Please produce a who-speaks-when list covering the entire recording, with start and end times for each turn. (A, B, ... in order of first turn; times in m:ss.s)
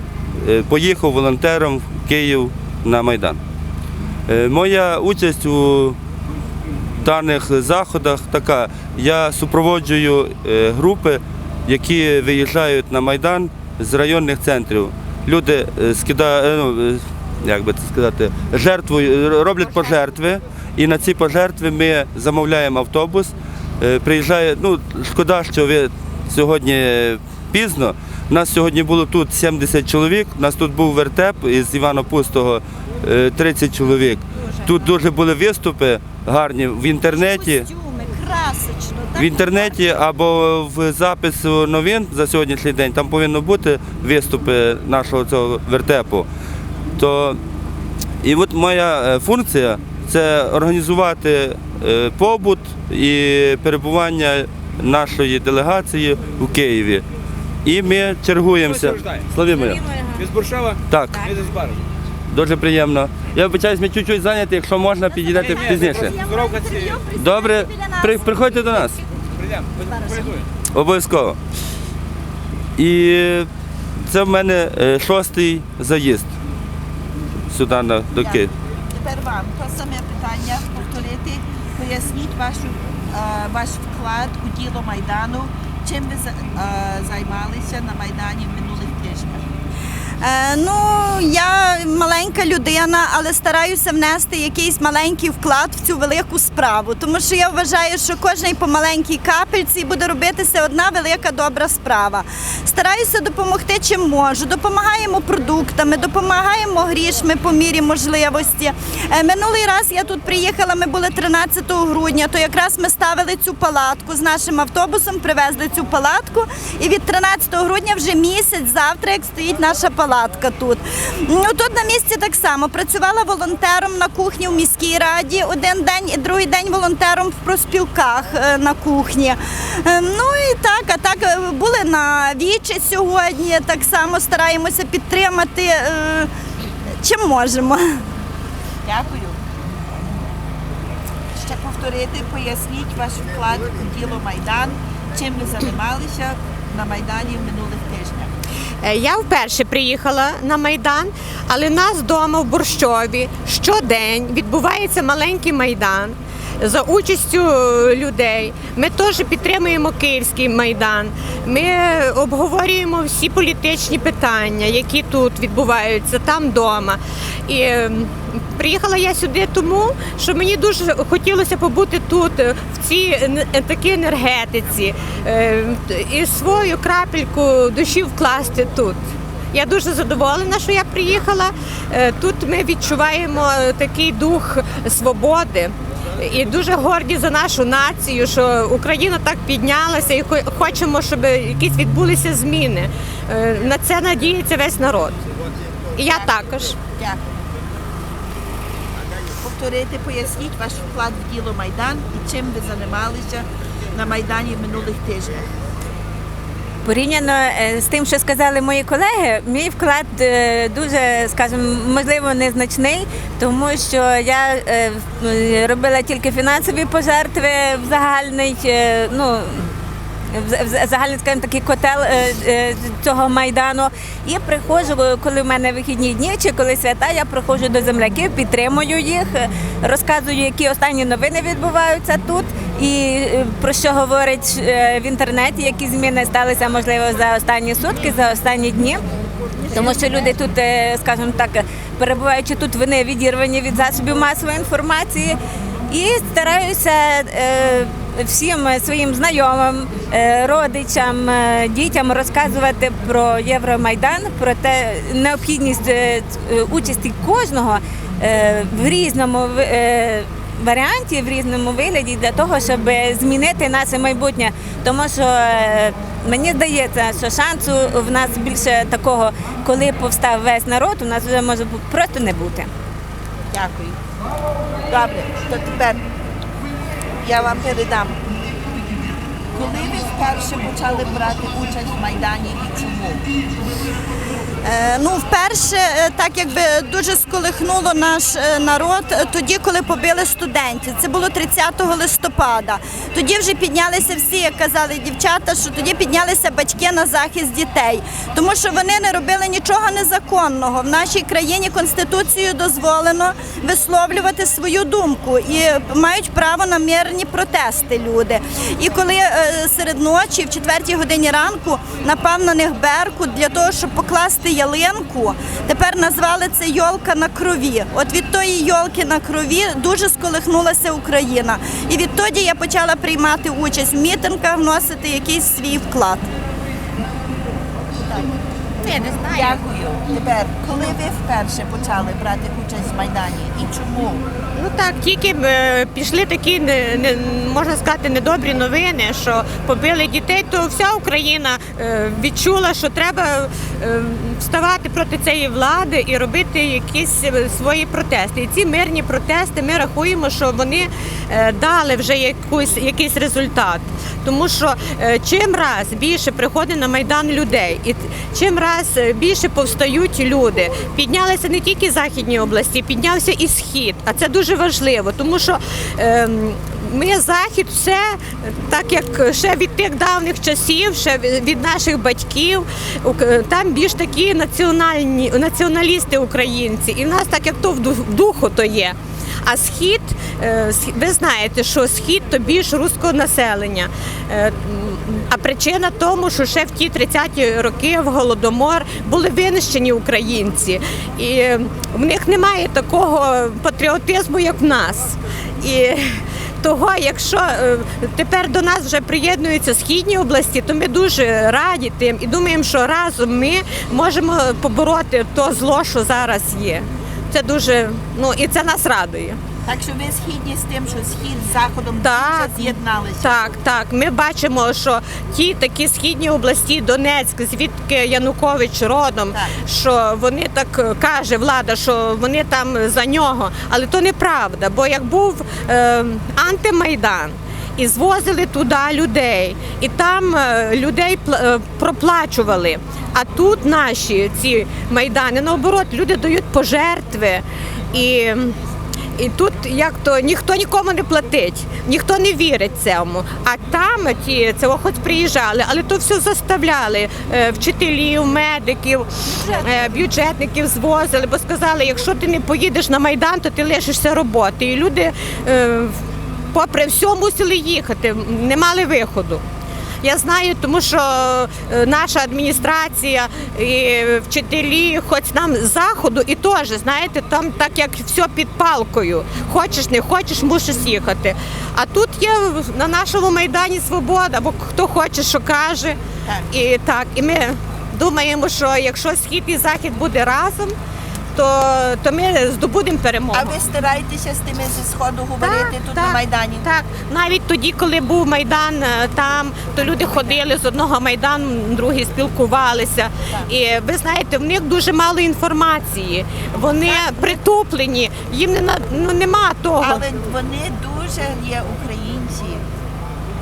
0:00.4-0:03.4 A
0:04.3-0:06.0 A
0:07.0-0:37.7 A
0:37.1-0:39.8 B
0:39.2-0:46.3 A
0:47.0-0:47.4 A
0:48.2-0:57.0 A
0:57.6-0:59.8 A
0:58.8-0:59.2 C
0:59.5-1:00.3 D
1:00.2-1:01.8 C
1:00.9-1:01.3 A
1:02.3-1:06.1 A
1:05.1-1:08.7 B
1:05.5-1:06.9 C
1:07.2-1:09.0 A
1:09.4-1:10.4 C
1:09.8-1:10.3 B
1:10.7-1:11.4 A
1:12.8-1:13.5 A
1:14.1-1:16.3 A
1:17.5-1:18.5 A
1:18.2-1:29.5 E
1:30.2-2:16.3 B
2:17.0-2:18.0 B
2:18.8-2:19.4 E
2:21.3-2:28.3 E
2:28.8-3:15.2 F
3:16.0-3:16.8 F
3:16.0-3:17.2 E
3:19.4-3:25.5 E
3:26.8-3:39.7 D
3:40.3-3:59.0 D
3:59.7-4:05.4 D
4:05.9-4:32.7 D
4:33.5-4:34.0 E
4:34.9-4:36.0 E
4:37.2-4:38.2 E
4:39.5-4:43.2 E
4:44.6-5:26.3 B
5:28.8-5:29.6 F
5:29.2-5:34.3 E
5:34.6-6:49.4 F
6:49.6-6:53.5 E
6:52.0-7:18.6 F
7:19.2-7:36.0 F
7:29.2-7:29.9 B
7:36.5-7:39.4 F
7:40.0-7:56.0 F
7:56.5-8:00.8 F
8:01.4-8:03.6 F
8:03.3-8:06.7 E
8:05.4-8:20.0 F
8:10.1-8:10.4 E
8:16.8-8:17.4 E
8:19.8-8:22.6 E